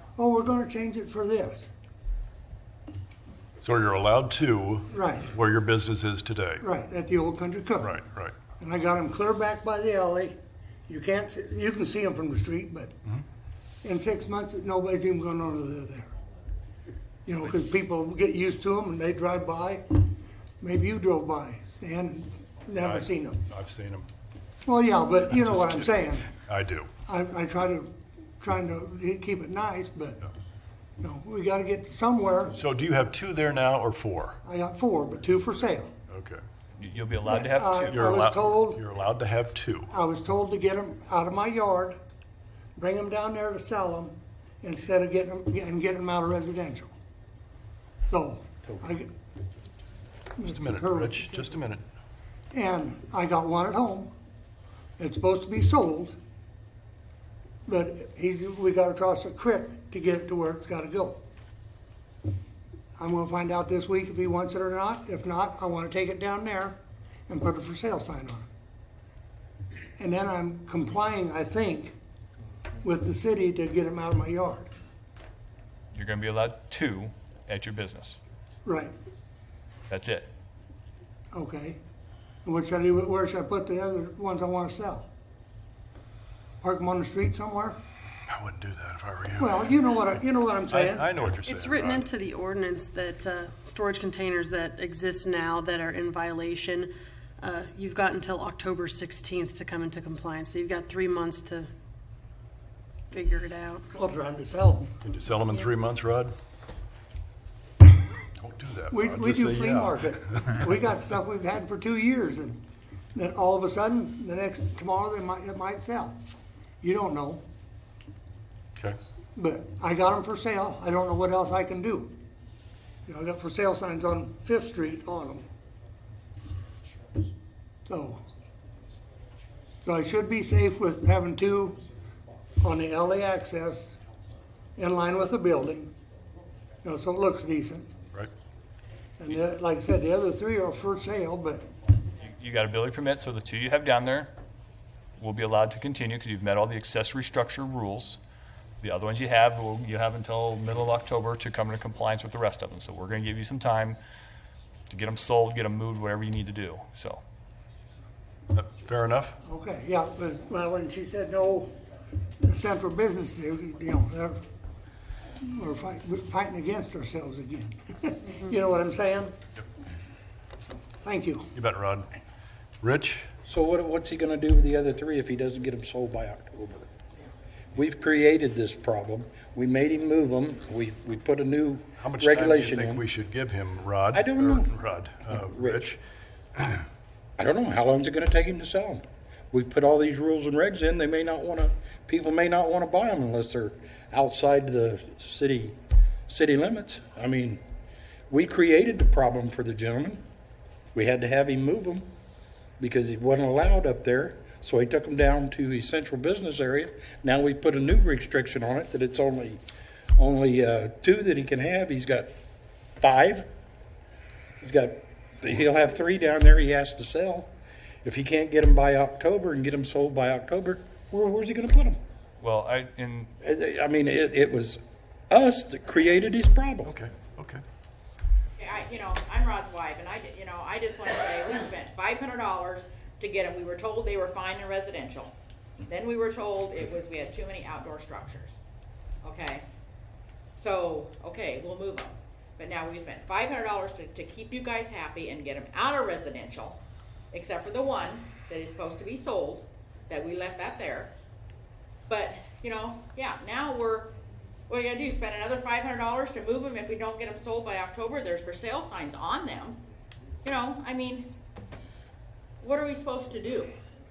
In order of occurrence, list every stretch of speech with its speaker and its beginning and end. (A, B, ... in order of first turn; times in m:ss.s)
0:00.2-0:01.7 A
0:03.6-0:06.6 B
0:04.9-0:05.3 A
0:06.6-0:08.0 A
0:07.8-0:08.3 B
0:08.6-0:10.4 A
0:10.9-0:12.9 A
0:13.8-0:16.1 A
0:17.2-0:20.1 A
0:20.6-0:23.4 A
0:22.8-0:24.1 B
0:24.6-0:26.4 A
0:25.3-0:26.9 B
0:27.0-0:30.3 A
0:31.0-0:32.6 A
0:32.5-0:34.4 B
0:34.4-0:35.9 A
0:36.1-0:36.4 B
0:36.8-0:38.0 C
0:37.3-0:38.8 A
0:37.9-0:39.9 B
0:39.9-0:42.0 A
0:42.8-0:46.9 A
0:48.1-0:49.1 A
0:50.4-0:51.5 A
0:50.4-0:51.8 B
0:52.5-0:54.1 A
0:55.0-0:56.2 A
0:57.7-1:01.2 A
1:03.0-1:08.5 A
1:10.0-1:11.9 A
1:12.8-1:14.7 A
1:15.9-1:18.2 C
1:18.6-1:18.9 A
1:19.9-1:20.3 C
1:21.3-1:21.8 A
1:22.4-1:25.1 A
1:26.6-1:27.8 A
1:28.3-1:29.7 B
1:29.4-1:31.1 A
1:30.7-1:32.1 B
1:31.4-1:41.7 D
1:43.1-1:43.8 D
1:43.9-1:44.9 A
1:45.0-1:46.3 B
1:48.4-1:50.6 B
1:48.9-1:52.6 A
1:53.1-1:56.2 A
1:56.8-1:57.4 A
1:59.3-2:02.2 A
2:03.0-2:05.4 A
2:07.8-2:08.2 A
2:09.8-2:11.8 A
2:12.6-2:14.0 A
2:14.8-2:15.9 A
2:16.8-2:17.9 A
2:19.2-2:21.6 A
2:22.2-2:24.3 C
2:25.2-2:28.2 C
2:28.8-2:34.0 C
2:34.9-2:37.2 C
2:38.5-2:39.4 B
2:39.4-2:41.8 A
2:42.4-2:44.4 A
2:45.4-2:49.4 A
2:51.0-2:51.5 A
2:51.5-2:52.1 B
2:52.8-2:53.3 B
2:53.4-2:56.9 E
2:57.7-3:03.0 E
3:02.0-3:06.0 B
3:04.1-3:04.7 E
3:05.3-3:05.9 E
3:06.6-3:06.8 B
3:07.4-3:17.6 E
3:18.3-3:20.2 E
3:20.9-3:22.1 E
3:22.8-3:29.6 E
3:30.2-3:32.3 E
3:33.0-3:33.5 E
3:34.6-3:37.5 E
3:38.0-3:42.0 E
3:42.4-3:43.3 C
3:43.4-3:46.9 E
3:46.8-3:47.6 B
3:48.6-3:55.3 F
3:55.9-3:58.6 F
3:59.2-3:59.6 F
4:00.6-4:06.8 F
4:07.3-4:11.1 F
4:12.1-4:14.2 F
4:14.7-4:19.8 F
4:20.4-4:21.3 F
4:22.6-4:23.8 F